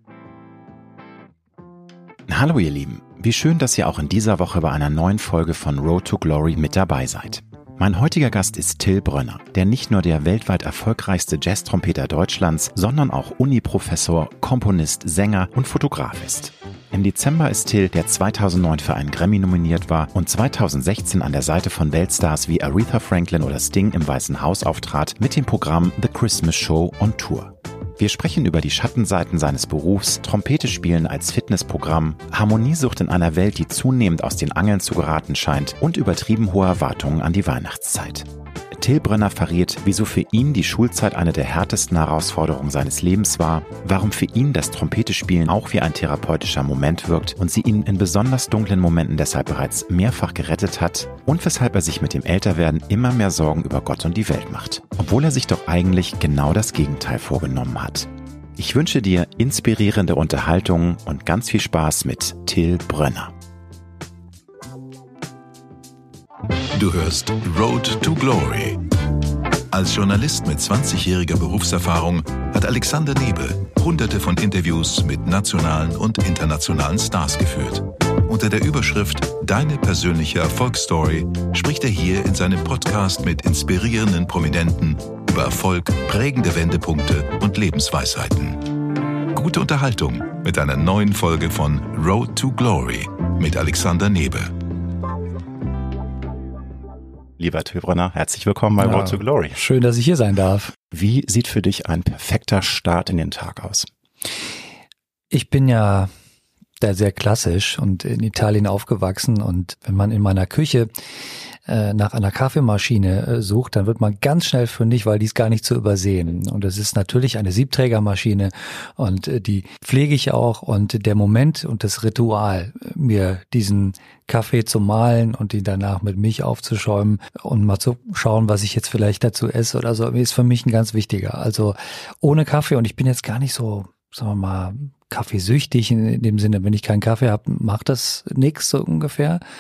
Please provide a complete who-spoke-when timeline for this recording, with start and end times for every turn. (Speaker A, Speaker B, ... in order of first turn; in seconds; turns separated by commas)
Speaker A: 2.3-63.3, Speaker B: 66.7-68.8, Speaker B: 69.7-88.8, Speaker B: 89.3-94.5, Speaker A: 97.4-99.6, Speaker C: 98.8-100.7, Speaker A: 100.9-103.9, Speaker C: 105.3-106.1, Speaker C: 106.8-110.9, Speaker C: 111.7-139.4